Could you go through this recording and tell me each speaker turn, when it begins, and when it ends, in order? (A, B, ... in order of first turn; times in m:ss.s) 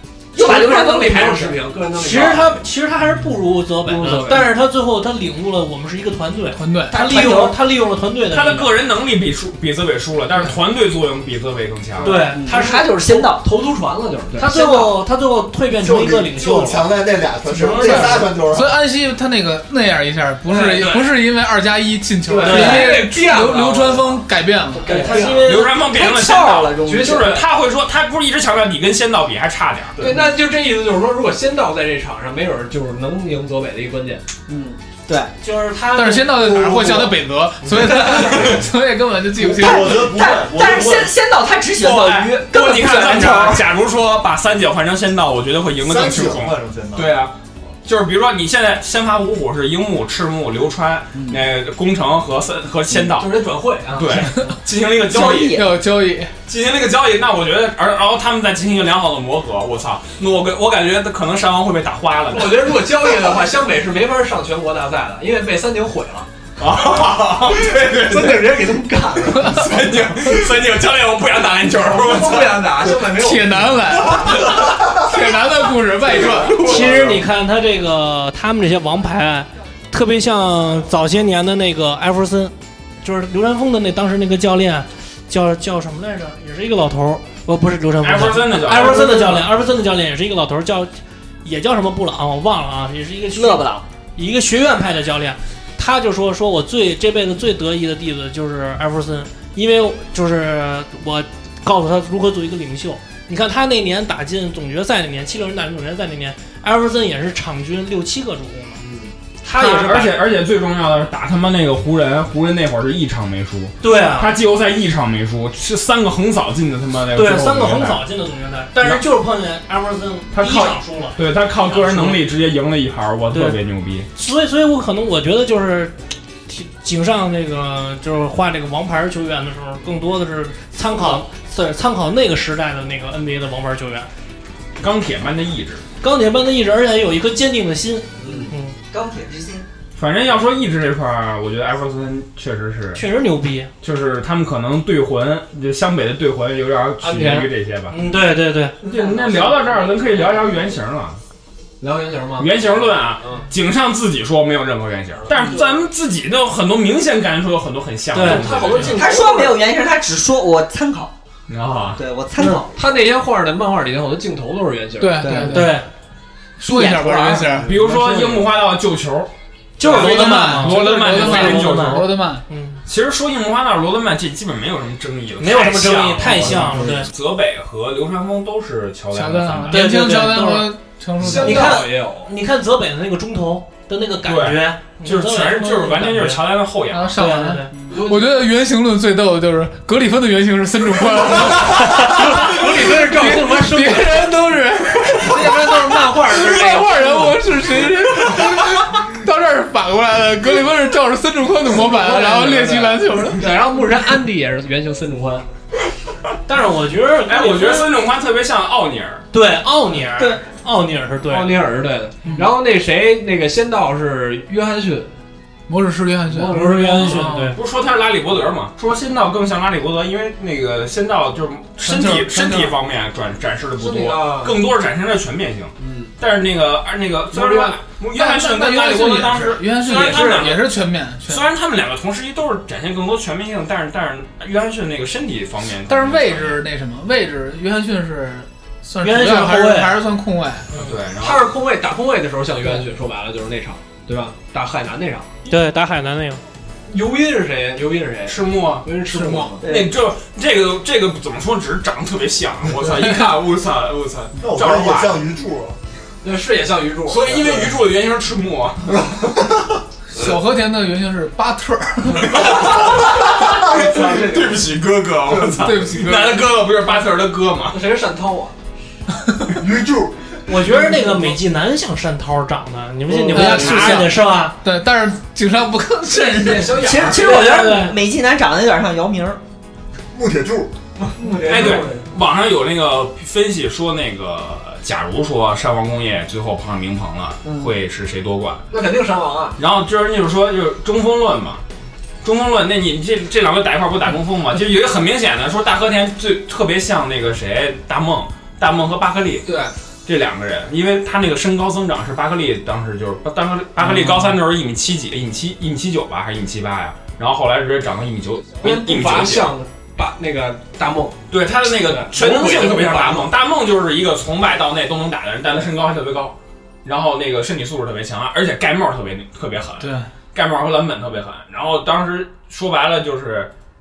0:00.3-0:01.6 A
0:00.4-0:02.6 B
0:01.9-0:08.7 C
0:03.8-0:04.5 B
0:06.5-0:07.0 D
0:06.9-0:07.5 A
0:08.3-0:12.2 E
0:12.0-0:12.3 B
0:12.0-0:13.2 C
0:12.3-0:13.4 A
0:13.2-0:14.5 B
0:14.4-0:16.8 C
0:14.4-0:15.0 A
0:15.8-0:18.7 F
0:17.4-0:18.3 C
0:17.7-0:24.9 D
0:20.5-0:21.1 B
0:22.2-0:25.6 B
0:22.4-0:23.0 C
0:22.5-0:22.8 A
0:24.8-0:27.4 A
0:24.9-0:25.3 C
0:25.4-0:30.0 E
0:26.8-0:27.4 B
0:30.0-0:34.2 B
0:34.5-0:35.3 A
0:35.4-0:36.6 C
0:35.9-0:40.1 D
0:37.7-0:38.3 F
0:37.8-0:38.1 B
0:39.3-0:41.1 F
0:39.5-0:43.6 A
0:41.8-0:53.4 E
0:45.8-0:47.2 F
0:51.2-0:51.4 A
0:53.0-0:54.3 B
0:53.9-0:55.6 E
0:55.0-0:55.8 A
0:55.2-0:56.3 D
0:56.5-1:02.9 E
1:02.3-1:06.3 B
1:06.6-1:08.7 E
1:07.5-1:09.6 B
1:09.4-1:12.7 E
1:11.7-1:14.6 B
1:13.1-1:16.8 D
1:16.1-1:17.2 B
1:16.6-1:30.9 C
1:28.0-1:29.5 E
1:31.4-1:33.6 C
1:33.3-1:33.8 A
1:34.2-1:48.8 C
1:48.8-1:49.1 B
1:49.4-1:50.2 C
1:49.4-1:58.0 E
1:53.8-1:54.3 C
1:57.1-2:02.2 C
2:00.3-2:04.1 E
2:03.3-2:03.6 C
2:04.1-2:05.9 C
2:06.5-2:14.1 C
2:14.8-2:15.8 E
2:16.0-2:18.8 C
2:18.2-2:18.5 B
2:18.2-2:19.6 A
2:20.0-2:23.0 E
2:22.9-2:23.7 C
2:23.8-2:27.9 E
2:27.0-2:27.4 B
2:27.9-2:28.8 C
2:28.8-2:30.6 B
2:28.8-2:31.2 E
2:31.8-2:33.5 B
2:32.4-2:39.0 E
2:35.2-2:35.8 B
2:38.1-2:38.9 C
2:38.2-2:39.6 B
2:38.9-2:41.1 A
2:41.5-2:42.0 E
2:42.0-2:42.8 A
2:42.4-2:45.5 B
2:45.0-2:45.8 D
2:45.2-2:45.6 A
2:45.4-2:45.9 C
2:46.6-2:47.8 D
2:46.8-2:47.4 A
2:47.4-2:48.5 B
2:47.6-2:49.3 E
2:49.8-2:52.8 C
2:49.8-2:52.4 D
2:49.8-2:52.1 E
2:52.8-2:59.8 E
2:55.4-2:57.1 C
2:56.5-2:57.0 B
2:59.1-3:01.8 D
2:59.7-3:00.7 C
3:01.2-3:02.3 B
3:01.3-3:06.4 C
3:04.2-3:07.2 E
3:06.9-3:23.5 D
3:07.1-3:07.7 C
3:07.8-3:08.5 B
3:11.2-3:18.4 B
3:11.6-3:14.2 C
3:21.6-3:25.4 B
3:26.5-3:27.9 C
3:27.3-3:29.2 E
3:29.3-3:31.5 C
3:30.2-3:30.4 A
3:31.2-3:35.1 B
3:32.2-3:32.5 D
3:35.7-3:37.6 D
3:36.3-3:37.3 B
3:36.5-3:37.6 C
3:37.5-3:56.6 E
3:41.8-3:42.8 D
3:43.8-3:44.6 B
3:45.8-3:46.1 B
3:47.3-3:47.8 B
3:48.1-3:51.5 D
3:55.9-4:00.8 D
3:59.0-4:00.0 C
4:00.7-4:01.5 E
4:01.2-4:05.5 B
4:05.4-4:06.4 C
4:06.9-4:09.6 B
4:08.2-4:15.2 E
4:09.6-4:09.9 A
4:12.8-4:13.3 D
4:14.4-4:15.8 F
4:16.2-4:17.6 B
4:17.0-4:19.1 E
4:20.1-4:22.5 D
4:22.2-4:27.8 E
4:22.4-4:22.7 B
4:23.6-4:24.6 B
4:25.4-4:26.4 D
4:27.7-4:28.5 B
4:29.6-4:30.3 F
4:30.5-4:34.6 C
4:33.2-4:33.8 B
4:33.3-4:37.0 D
4:36.1-4:37.7 B
4:36.8-4:39.4 A
4:37.1-4:38.0 C
4:40.1-4:40.7 F
4:41.0-4:42.1 B
4:41.4-4:48.6 E
4:47.4-4:47.7 A
4:48.7-4:49.6 B
4:49.6-4:51.6 E
4:52.2-4:59.5 E
4:59.4-4:59.7 B
5:00.0-5:09.5 E
5:08.6-5:11.2 B
5:11.3-5:23.5 E
5:11.8-5:13.3 B
5:19.8-5:20.1 D